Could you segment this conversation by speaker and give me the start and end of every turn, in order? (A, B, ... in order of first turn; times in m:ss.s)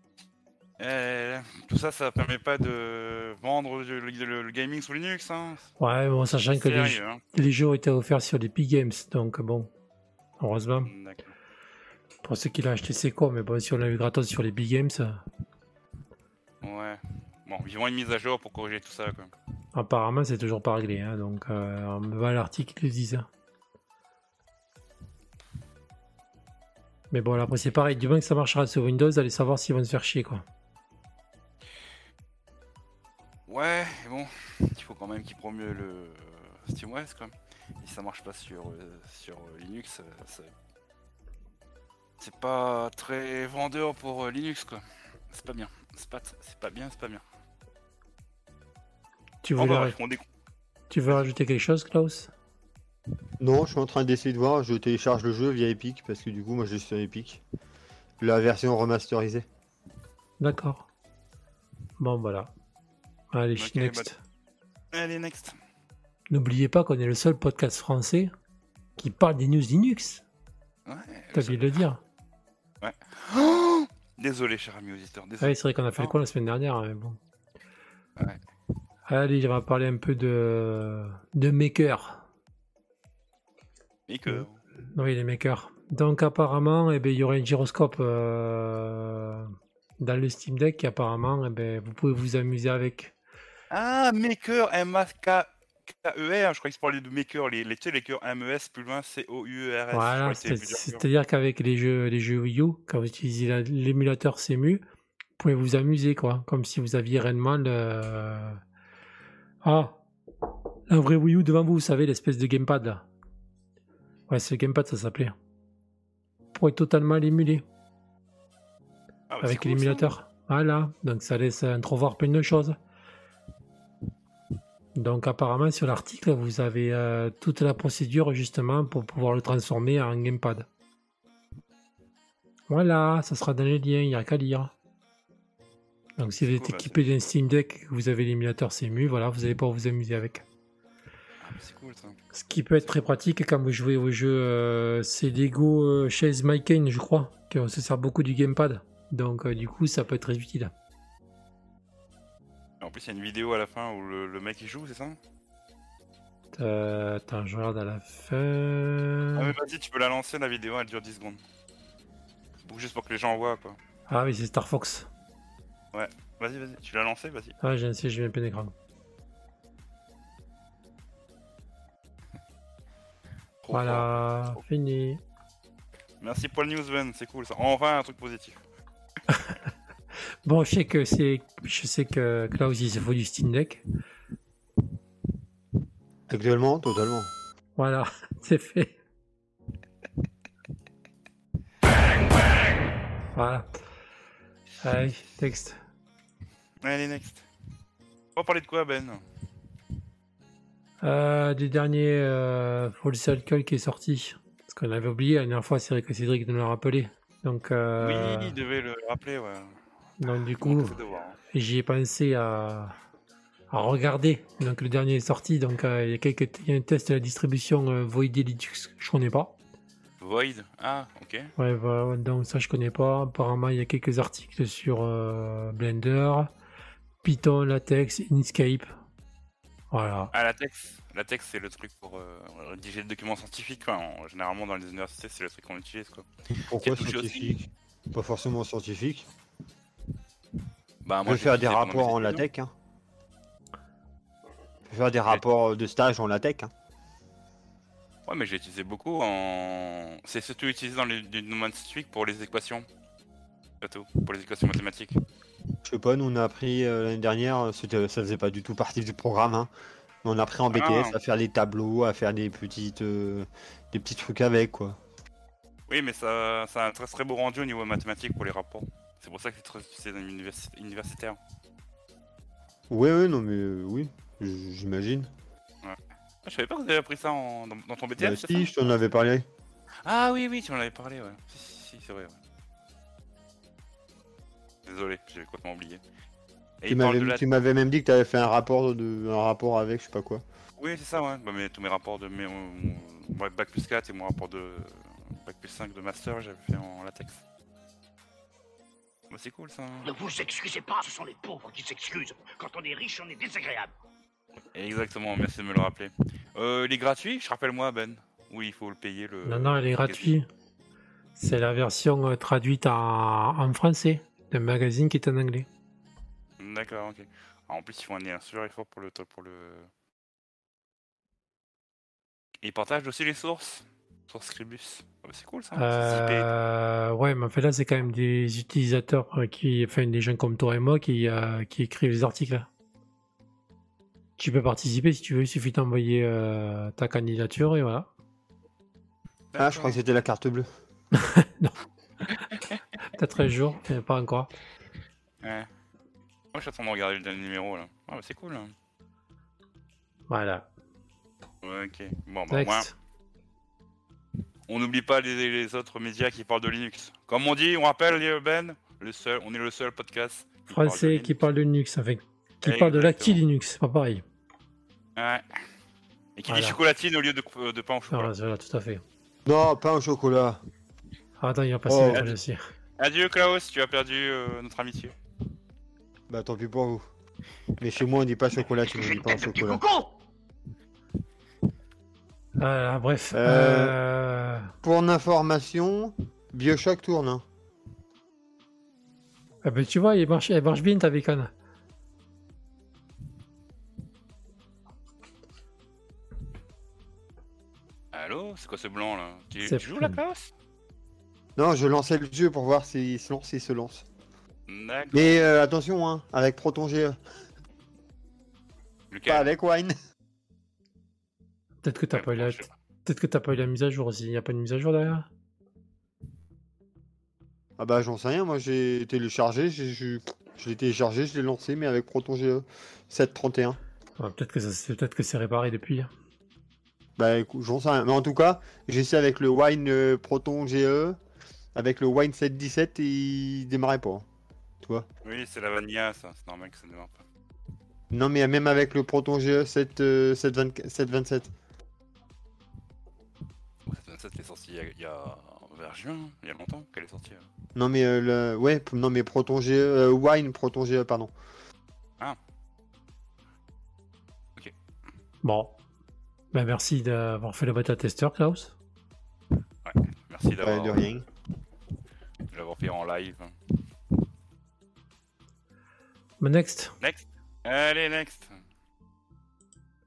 0:00.8-0:05.7 A
0:05.8-0:09.7 B
0:06.5-0:07.2 A
0:10.4-0:10.9 B
0:10.9-0:11.4 A
0:12.2-0:15.2 B
0:16.6-0:19.3 A
0:19.7-0:23.3 B
0:27.1-0:30.4 B
0:33.5-0:40.5 A
0:42.2-0:47.2 A
0:49.4-0:50.0 B
0:49.6-0:50.2 A
0:50.9-0:52.3 B
0:53.4-0:57.4 C
0:58.2-0:59.5 C
1:00.4-1:00.9 B
1:02.0-1:02.5 B
1:03.3-1:04.2 B
1:03.6-1:04.1 A
1:04.9-1:05.6 A
1:06.3-1:08.3 B
1:09.0-1:10.2 B
1:10.9-1:11.8 A
1:11.3-1:12.0 B
1:12.8-1:16.1 A
1:15.4-1:17.2 B
1:19.1-1:22.2 B
1:24.1-1:24.6 A
1:24.9-1:33.1 B
1:33.7-1:41.0 A
1:39.9-1:44.8 B
1:45.4-1:48.6 B
1:49.6-1:50.0 B
1:50.9-1:53.1 B
1:54.3-1:55.4 B
1:56.6-1:57.6 B
1:59.3-2:00.1 A
1:59.4-2:02.8 B
2:05.0-2:10.7 B
2:12.7-2:14.7 B
2:16.2-2:20.4 B
2:16.4-2:17.1 A
2:21.4-2:22.2 A
2:22.3-2:30.7 B
2:32.8-2:35.2 A
2:36.6-2:39.5 B
2:39.4-2:41.4 A
2:42.6-2:43.8 A
2:44.1-2:45.1 B
2:45.9-2:47.6 A
2:47.6-2:48.7 B
2:53.6-2:54.6 A
2:53.7-2:55.2 B
2:56.2-2:58.6 A
3:00.4-3:03.8 B
3:06.3-3:07.3 C
3:07.8-3:08.9 B
3:13.4-3:13.7 B
3:14.8-3:15.8 B
3:16.8-3:17.5 A
3:18.4-3:19.2 A
3:21.0-3:28.6 B
3:28.0-3:29.8 A
3:30.2-3:31.0 B
3:30.6-3:31.4 A
3:31.5-3:32.9 B
3:33.7-3:39.6 B
3:40.2-3:41.5 A
3:41.6-3:46.5 B
3:47.2-3:48.9 B
3:49.9-3:50.3 B
3:50.3-3:56.3 A
3:56.7-3:59.3 C
3:56.8-3:57.6 A
4:01.0-4:02.4 A
4:01.3-4:02.7 C
4:04.9-4:06.7 C
4:08.3-4:12.9 A
4:13.8-4:15.2 A
4:15.8-4:19.7 C
4:20.2-4:25.0 C
4:20.7-4:21.2 A
4:25.9-4:31.4 A
4:32.9-4:35.3 C
4:35.8-4:38.7 A
4:38.2-4:39.5 C
4:40.0-4:42.4 A
4:44.9-4:46.0 A
4:46.8-4:47.4 A
4:46.9-4:50.4 C
4:50.8-4:57.4 A
4:59.3-5:00.1 A
5:00.0-5:03.9 D
5:04.8-5:10.3 A
5:09.5-5:10.5 B
5:11.4-5:15.7 B
5:16.6-5:19.9 A
5:22.6-5:26.5 A
5:25.8-5:32.7 B
5:34.4-5:38.1 B
5:39.5-5:40.0 A
5:39.6-5:40.7 C
5:41.2-5:41.8 B
5:42.4-5:42.8 A
5:43.2-5:44.5 B
5:45.4-5:45.7 A
5:46.5-5:48.7 A
5:50.3-5:50.7 B
5:51.6-5:52.9 A
5:52.5-5:52.9 B
5:54.7-6:01.4 A
6:00.7-6:04.2 B
6:02.6-6:03.4 A
6:05.2-6:05.4 A
6:06.4-6:08.3 A
6:06.5-6:06.8 B
6:08.1-6:09.0 B
6:09.5-6:10.6 C
6:11.4-6:12.6 B
6:11.9-6:12.2 C
6:13.0-6:15.1 A
6:16.3-6:17.0 C
6:17.8-6:19.8 C
6:19.6-6:20.1 D
6:22.6-6:24.7 B
6:23.3-6:23.9 C
6:24.8-6:27.4 C
6:29.6-6:31.5 B
6:38.1-6:40.5 A
6:39.6-6:40.2 B
6:41.6-6:44.1 C
6:44.7-6:45.5 A
6:45.1-6:47.2 C
6:49.1-6:49.5 A
6:49.3-6:49.9 C
6:51.8-6:55.3 B
6:52.1-6:52.7 A
6:57.8-7:03.8 C
7:04.2-7:06.1 B
7:07.2-7:11.2 C
7:11.8-7:14.2 C
7:14.8-7:15.1 C
7:15.2-7:17.2 A
7:18.1-7:21.5 C
7:23.9-7:27.5 A
7:27.8-7:31.3 C
7:35.4-7:35.8 B
7:36.5-7:38.7 B
7:39.8-7:41.1 A
7:40.6-7:41.2 C
7:42.5-7:43.5 A
7:46.4-7:47.0 B
7:47.0-7:48.5 A